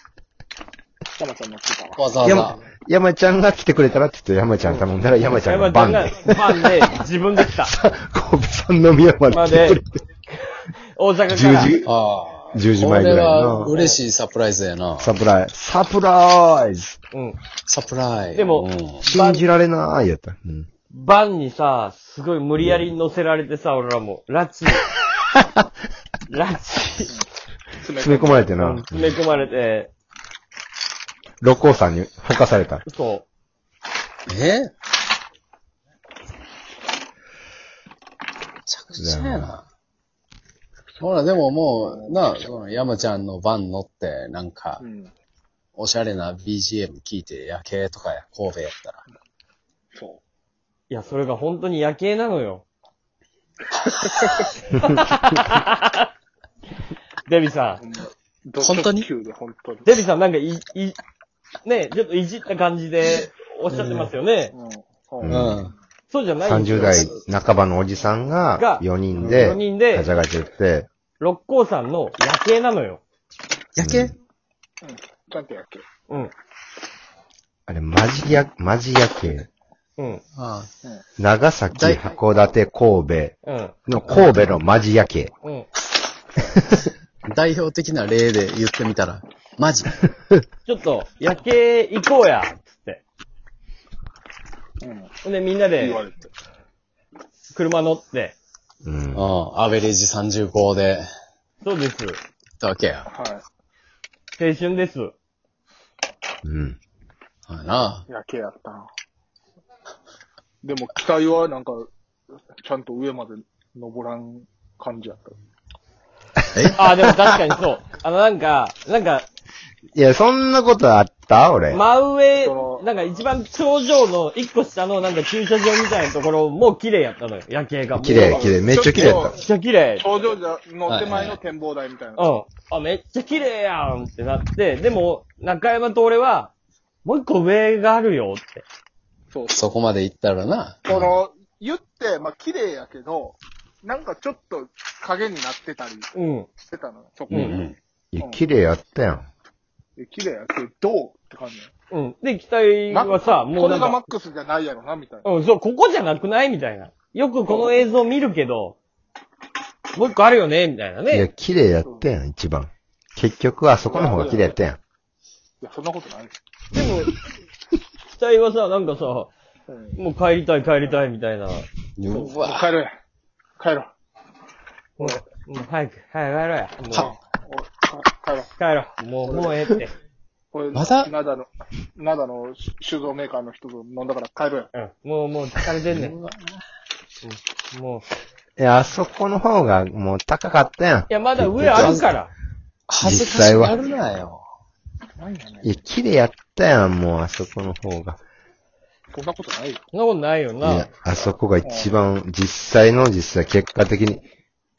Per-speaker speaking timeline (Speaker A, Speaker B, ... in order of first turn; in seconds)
Speaker A: 1.2-2.0, 27.8-28.5, 41.0-42.6, 44.8-45.1, 49.9-50.2, 53.8-54.4, 57.8-59.9, 64.5-65.6, 74.8-75.8, 94.8-95.1, 95.8-96.3, 103.1-103.4, 108.1-108.9, 110.6-111.9, 112.6-115.3, 122.4-122.8, 128.2-129.3, 130.0-132.3, 139.3-139.6, 140.9-148.4, 150.0-151.7, 152.9-155.2, 157.4-157.8, 163.8-164.5, 165.6-166.4, 169.7-170.0, 172.1-172.9, 173.6-173.9, 176.9-178.5, 180.5-184.7, 195.2-195.7, 199.1-199.8, 201.6-201.9
Speaker B: 2.0-2.6, 11.8-15.1, 17.7-19.1, 34.3-34.7, 38.7-39.6, 41.0-44.8, 45.8-49.0, 58.6-59.1, 63.7-64.1, 65.3-65.7, 66.8-67.1, 69.2-69.4, 73.8-74.1, 80.3-80.7, 81.7-82.1, 87.3-90.0, 99.1-101.0, 102.6-103.1, 107.5-108.0, 130.8-131.4, 139.5-141.1, 147.3-147.8, 172.0-172.7, 180.7-181.1, 185.9-186.5, 191.7-192.1, 192.9-194.4
Speaker C: 2.2-6.6, 7.4-9.9, 11.3-11.9, 12.5-13.7, 15.0-17.0, 19.0-20.7, 22.6-22.9, 25.3-25.6, 28.0-29.2, 31.4-32.8, 39.0-39.5, 65.2-65.6, 66.4-70.9, 73.8-74.1, 77.7-79.5, 81.2-83.3, 83.9-85.3, 86.4-86.9, 98.8-99.3, 106.4-106.8, 119.9-121.8, 127.9-129.3, 148.1-149.3, 161.1-164.8, 188.6-192.1, 193.0-193.8, 195.6-198.2, 200.6-204.2
Speaker D: 4.6-4.9, 5.4-7.7, 9.3-11.8, 13.6-14.0, 18.3-19.4, 20.9-24.9, 26.3-27.1, 28.6-29.9, 32.9-33.2, 50.9-52.6, 54.7-56.1, 57.3-57.8, 59.9-61.0, 61.6-64.5, 66.1-67.1, 68.5-70.1, 71.2-73.0, 83.4-83.7, 90.7-93.0, 95.2-96.0, 97.5-98.3, 101.6-102.2, 104.4-105.1, 116.7-119.2, 121.7-130.1, 132.2-136.5, 137.0-138.6, 146.1-146.5, 151.9-154.0, 155.2-158.8, 159.9-161.3, 166.7-167.1, 168.1-169.3, 170.0-171.7, 175.0-177.1, 178.6-179.9, 184.7-186.1, 187.2-188.0, 191.1-192.3, 199.9-200.9